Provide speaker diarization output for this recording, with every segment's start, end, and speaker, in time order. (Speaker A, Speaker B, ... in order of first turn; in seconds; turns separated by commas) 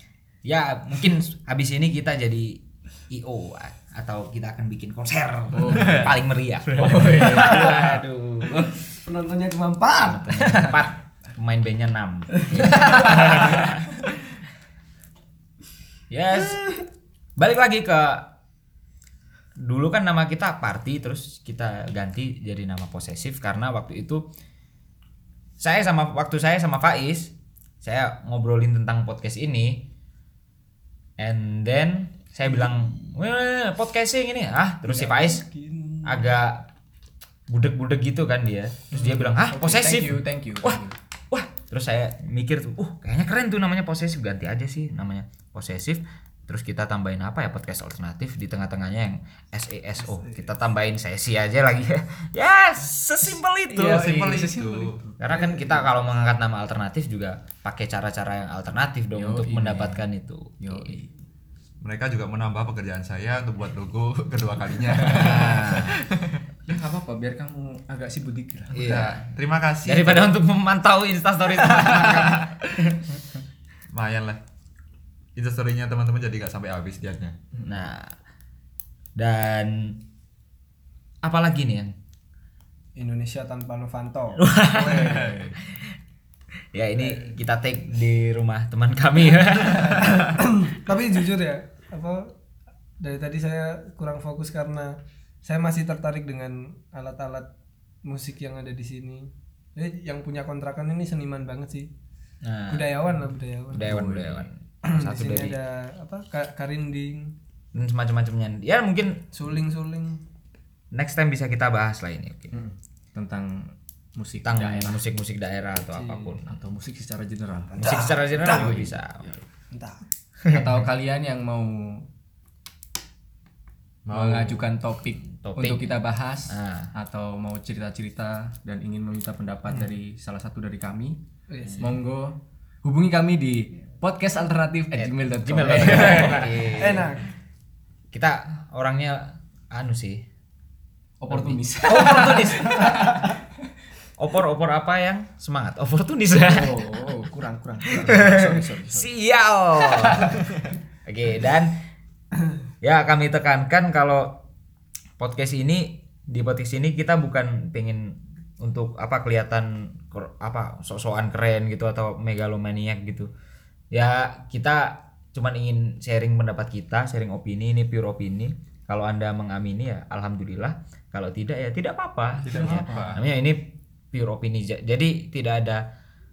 Speaker A: 0.5-8.8, Speaker B: 5.5-6.2, Speaker C: 5.8-6.1, Speaker B: 6.7-7.9, Speaker D: 9.0-10.7, Speaker A: 10.0-13.9, Speaker B: 10.5-10.7, Speaker D: 12.4-13.5, Speaker B: 12.7-13.4, Speaker A: 16.1-16.8, Speaker A: 17.4-18.3, Speaker A: 19.6-24.3, Speaker A: 25.6-29.9, Speaker A: 31.2-35.5, Speaker D: 34.9-36.3, Speaker A: 36.0-36.7, Speaker A: 37.5-54.2, Speaker B: 39.0-41.0, Speaker D: 50.0-50.5, Speaker B: 53.7-55.6, Speaker C: 53.9-55.0, Speaker A: 55.2-61.0, Speaker B: 59.2-60.0, Speaker B: 60.6-61.1, Speaker C: 61.8-66.4, Speaker A: 65.1-66.0, Speaker B: 65.1-65.7, Speaker B: 66.7-69.1, Speaker A: 68.7-69.2, Speaker C: 68.8-70.3, Speaker A: 69.8-73.0, Speaker C: 73.9-74.4, Speaker C: 75.4-77.4, Speaker A: 77.7-78.2, Speaker A: 79.2-80.0, Speaker A: 81.2-81.9, Speaker D: 83.0-85.2, Speaker A: 84.4-85.9, Speaker B: 84.7-85.5, Speaker A: 86.7-90.2, Speaker D: 87.0-87.4, Speaker D: 89.9-92.3, Speaker D: 93.0-97.5, Speaker D: 98.0-101.9, Speaker A: 102.4-103.0, Speaker D: 102.7-104.0, Speaker A: 103.7-105.6, Speaker B: 103.8-104.5, Speaker D: 104.8-107.3, Speaker A: 107.7-109.2, Speaker D: 109.3-110.2, Speaker A: 110.9-112.6, Speaker B: 112.5-115.0, Speaker A: 114.4-116.5, Speaker D: 115.9-116.4, Speaker B: 116.5-119.4, Speaker D: 117.7-118.8, Speaker A: 117.8-119.3, Speaker D: 119.7-120.0, Speaker B: 120.5-122.1, Speaker C: 124.1-124.7, Speaker B: 124.1-131.2, Speaker A: 125.3-125.9, Speaker A: 126.5-126.9, Speaker D: 131.5-131.9, Speaker B: 131.8-137.0, Speaker A: 134.9-137.1, Speaker D: 136.8-137.3, Speaker A: 138.1-140.2, Speaker B: 141.2-143.4, Speaker A: 141.3-143.1, Speaker A: 144.2-147.0, Speaker B: 146.4-149.1, Speaker A: 147.9-150.4, Speaker B: 149.8-150.4, Speaker A: 151.1-151.8, Speaker A: 152.8-154.4, Speaker A: 155.2-163.3, Speaker A: 163.9-175.8, Speaker C: 172.4-173.2, Speaker B: 172.5-173.2